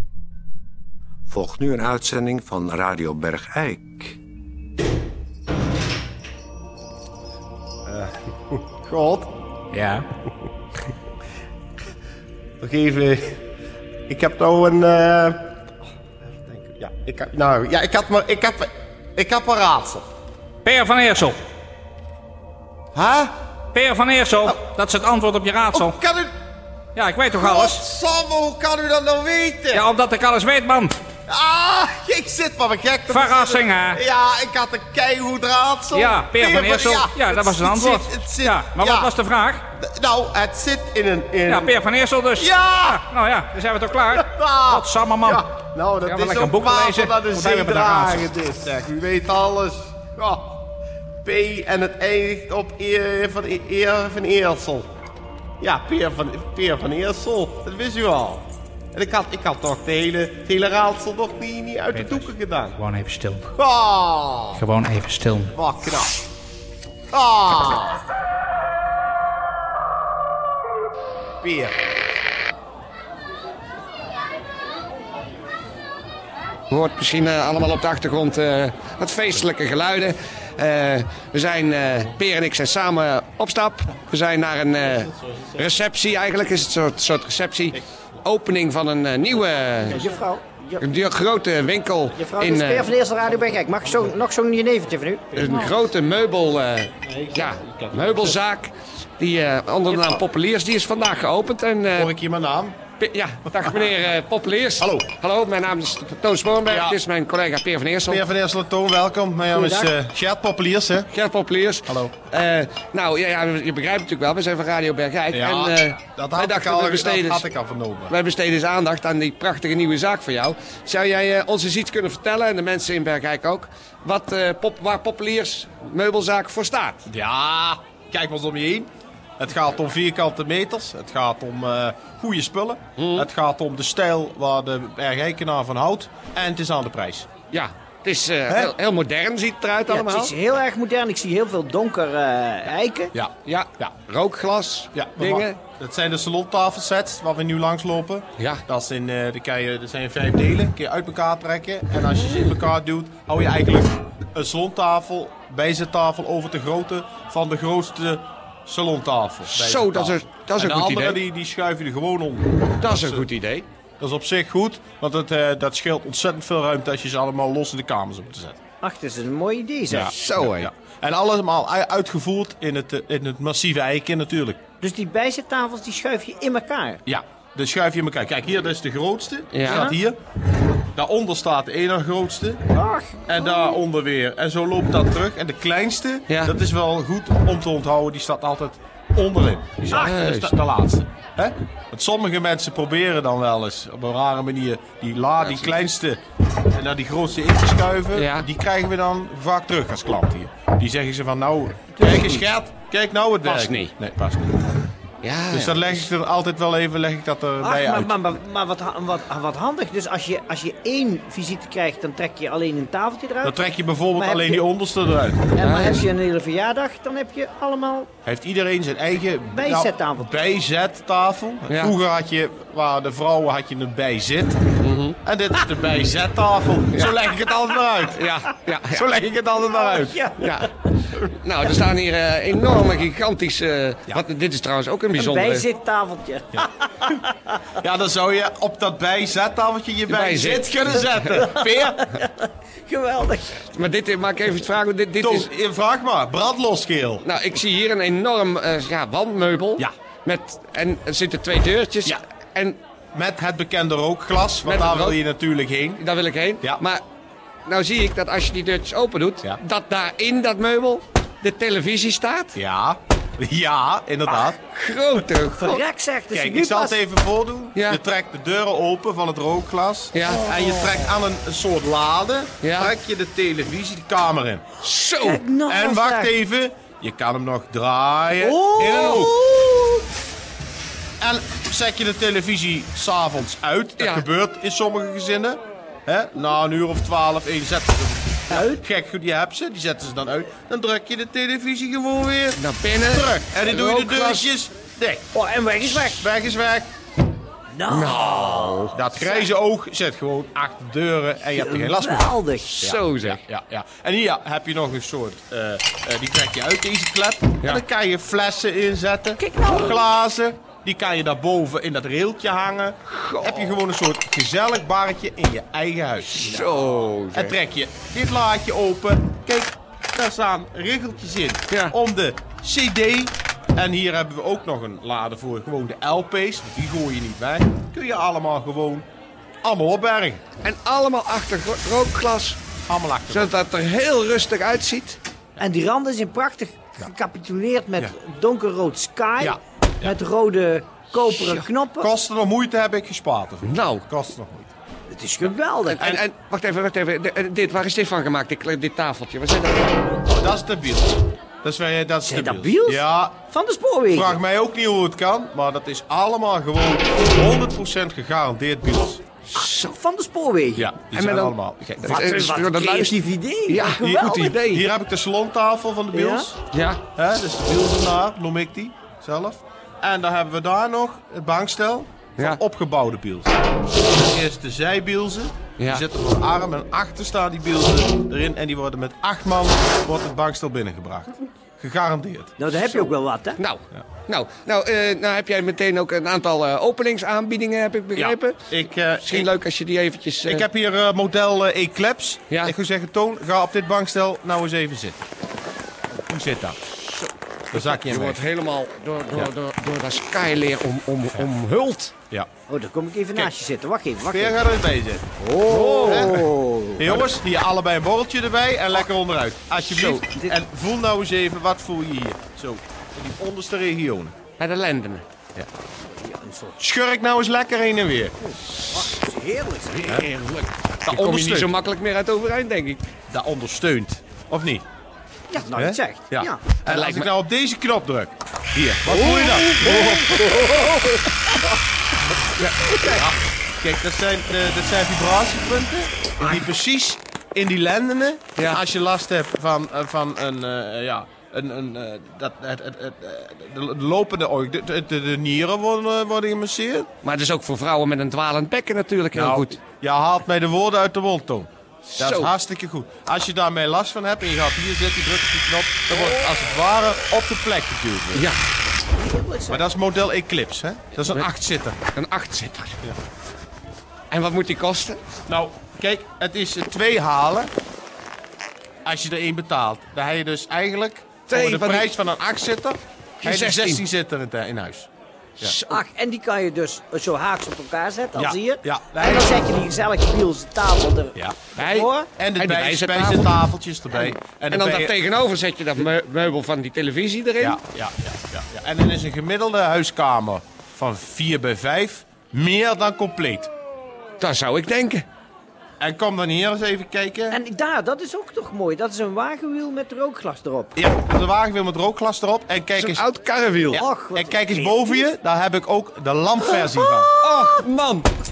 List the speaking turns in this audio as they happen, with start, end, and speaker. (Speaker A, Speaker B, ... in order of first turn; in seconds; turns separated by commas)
Speaker A: 1.3-4.2, Speaker B: 7.8-9.3, Speaker C: 9.7-10.0, Speaker B: 12.6-13.4, Speaker B: 14.1-15.4, Speaker B: 16.4-20.1, Speaker C: 20.6-21.4, Speaker B: 22.9-23.4, Speaker C: 23.7-26.0, Speaker B: 25.7-26.3, Speaker C: 26.9-27.8, Speaker B: 27.3-29.9, Speaker C: 29.7-31.0, Speaker B: 31.3-39.1, Speaker C: 33.1-34.0, Speaker C: 35.9-39.6, Speaker B: 39.7-41.8, Speaker C: 41.5-45.4, Speaker B: 42.4-43.0, Speaker B: 44.1-50.6, Speaker C: 46.0-48.3, Speaker B: 51.2-54.9, Speaker B: 55.6-62.8, Speaker C: 61.9-63.5, Speaker B: 63.5-64.6, Speaker C: 64.5-65.5, Speaker B: 65.5-66.1, Speaker B: 67.1-68.0, Speaker B: 71.4-71.8, Speaker D: 76.7-90.0, Speaker E: 89.9-90.8, Speaker D: 90.8-92.9, Speaker E: 92.1-95.7, Speaker D: 95.3-102.1, Speaker B: 97.0-98.4, Speaker B: 101.9-102.8, Speaker D: 103.0-108.2, Speaker B: 104.8-105.1, Speaker B: 106.6-107.0, Speaker B: 108.1-111.1, Speaker E: 109.5-109.9, Speaker D: 111.1-117.5, Speaker B: 111.9-112.1, Speaker B: 115.3-118.1, Speaker D: 118.1-127.0, Speaker B: 127.1-137.3, Speaker D: 133.0-133.3, Speaker D: 137.5-140.3, Speaker B: 138.5-138.7, Speaker E: 139.9-143.1, Speaker B: 143.1-143.9, Speaker D: 143.4-145.6, Speaker B: 144.9-163.2, Speaker D: 159.5-161.2, Speaker D: 162.8-163.7, Speaker B: 164.0-168.6, Speaker E: 168.8-170.1, Speaker B: 169.9-174.6, Speaker D: 170.0-170.7, Speaker E: 174.8-177.0, Speaker B: 177.1-180.2, Speaker D: 179.5-179.9, Speaker E: 179.7-180.0, Speaker B: 180.9-182.6, Speaker E: 182.7-183.7, Speaker B: 183.3-196.2, Speaker D: 186.3-186.5, Speaker D: 189.9-190.5, Speaker D: 195.4-195.7, Speaker B: 196.7-204.8, Speaker D: 198.1-198.5, Speaker E: 201.9-202.4, Speaker D: 203.4-203.9, Speaker D: 205.2-206.1, Speaker B: 205.5-208.1, Speaker E: 207.6-213.6, Speaker B: 213.4-215.6, Speaker E: 214.1-214.6, Speaker E: 215.5-218.1, Speaker D: 215.6-216.0, Speaker B: 218.2-224.7, Speaker E: 219.5-220.3, Speaker D: 221.7-221.9, Speaker D: 224.8-225.2, Speaker B: 225.2-228.2, Speaker D: 228.1-229.1, Speaker B: 228.8-230.3, Speaker E: 229.7-230.7, Speaker D: 230.4-230.7, Speaker D: 231.3-235.6, Speaker E: 235.1-237.5, Speaker B: 237.8-242.1, Speaker D: 240.1-241.5, Speaker E: 241.4-243.6, Speaker D: 243.7-245.5, Speaker B: 245.2-247.2, Speaker D: 247.2-252.8, Speaker B: 253.1-256.0, Speaker D: 254.6-255.2, Speaker D: 256.0-257.0, Speaker D: 257.6-262.6, Speaker B: 262.5-264.6, Speaker D: 264.6-265.8, Speaker E: 265.6-267.0, Speaker B: 266.3-274.7, Speaker D: 267.7-268.0, Speaker D: 270.1-270.5, Speaker D: 272.6-272.9, Speaker D: 274.8-275.4, Speaker E: 275.2-276.3, Speaker B: 275.6-279.3, Speaker E: 278.4-280.0, Speaker B: 281.2-295.3, Speaker D: 284.0-284.3, Speaker E: 288.5-288.8, Speaker D: 292.6-294.5, Speaker E: 295.3-296.2, Speaker B: 295.8-296.9, Speaker E: 297.7-299.5, Speaker D: 297.9-298.9, Speaker B: 298.9-329.1, Speaker E: 301.5-302.7, Speaker D: 302.6-303.4, Speaker E: 309.4-309.9, Speaker D: 313.1-313.8, Speaker D: 316.3-317.6, Speaker D: 321.7-321.9, Speaker B: 329.6-330.4, Speaker D: 330.6-332.6, Speaker B: 332.9-333.5, Speaker D: 333.3-335.2, Speaker E: 335.6-342.1, Speaker B: 339.4-340.1, Speaker D: 341.3-341.6, Speaker B: 342.0-344.7, Speaker D: 343.6-344.1, Speaker E: 345.1-346.0, Speaker D: 345.9-350.0, Speaker B: 350.3-353.4, Speaker E: 352.3-354.4, Speaker B: 354.1-359.2, Speaker D: 359.5-359.9, Speaker E: 359.5-360.9, Speaker B: 360.8-362.5, Speaker D: 361.1-363.1, Speaker E: 362.0-364.5, Speaker D: 363.7-364.9, Speaker B: 364.0-366.6, Speaker E: 366.1-366.5, Speaker D: 366.7-367.0, Speaker B: 367.1-382.5, Speaker D: 375.8-376.0, Speaker E: 382.6-383.6, Speaker D: 383.6-388.6, Speaker B: 388.1-389.5, Speaker D: 389.2-390.6, Speaker B: 390.4-395.2, Speaker D: 392.5-392.7, Speaker B: 396.2-396.8, Speaker D: 397.1-402.1, Speaker B: 397.7-398.4, Speaker E: 402.7-404.6, Speaker B: 404.3-406.4, Speaker E: 405.4-407.2, Speaker D: 405.7-406.3, Speaker B: 407.0-414.4, Speaker D: 409.9-410.2, Speaker E: 410.1-410.5, Speaker D: 414.6-415.2, Speaker E: 416.1-416.8, Speaker B: 416.8-418.3, Speaker E: 418.4-420.1, Speaker D: 419.9-423.0, Speaker B: 421.1-421.7, Speaker B: 423.3-424.9, Speaker E: 425.5-426.6, Speaker B: 425.7-430.2, Speaker D: 426.9-427.3, Speaker E: 429.1-430.9, Speaker D: 429.2-431.1, Speaker D: 432.6-433.1, Speaker E: 432.9-433.2, Speaker B: 433.1-447.1, Speaker D: 438.6-438.8, Speaker D: 447.2-449.8, Speaker B: 449.3-458.5, Speaker D: 452.1-452.5, Speaker D: 456.1-456.4, Speaker D: 458.3-458.6, Speaker E: 459.1-459.8, Speaker B: 459.7-462.0, Speaker D: 462.1-463.0, Speaker D: 464.3-465.2, Speaker B: 465.5-467.7, Speaker B: 469.0-475.1, Speaker D: 471.5-472.1, Speaker D: 473.4-474.0, Speaker D: 475.6-476.0, Speaker E: 475.9-482.3, Speaker B: 478.3-479.6, Speaker D: 481.8-483.5, Speaker B: 482.4-485.1, Speaker D: 484.1-487.8, Speaker B: 487.6-493.7, Speaker D: 494.4-495.2, Speaker B: 496.0-497.6, Speaker E: 497.5-500.9, Speaker B: 500.9-503.3, Speaker D: 503.0-504.0, Speaker B: 503.8-507.3, Speaker E: 503.9-505.3, Speaker D: 506.6-508.3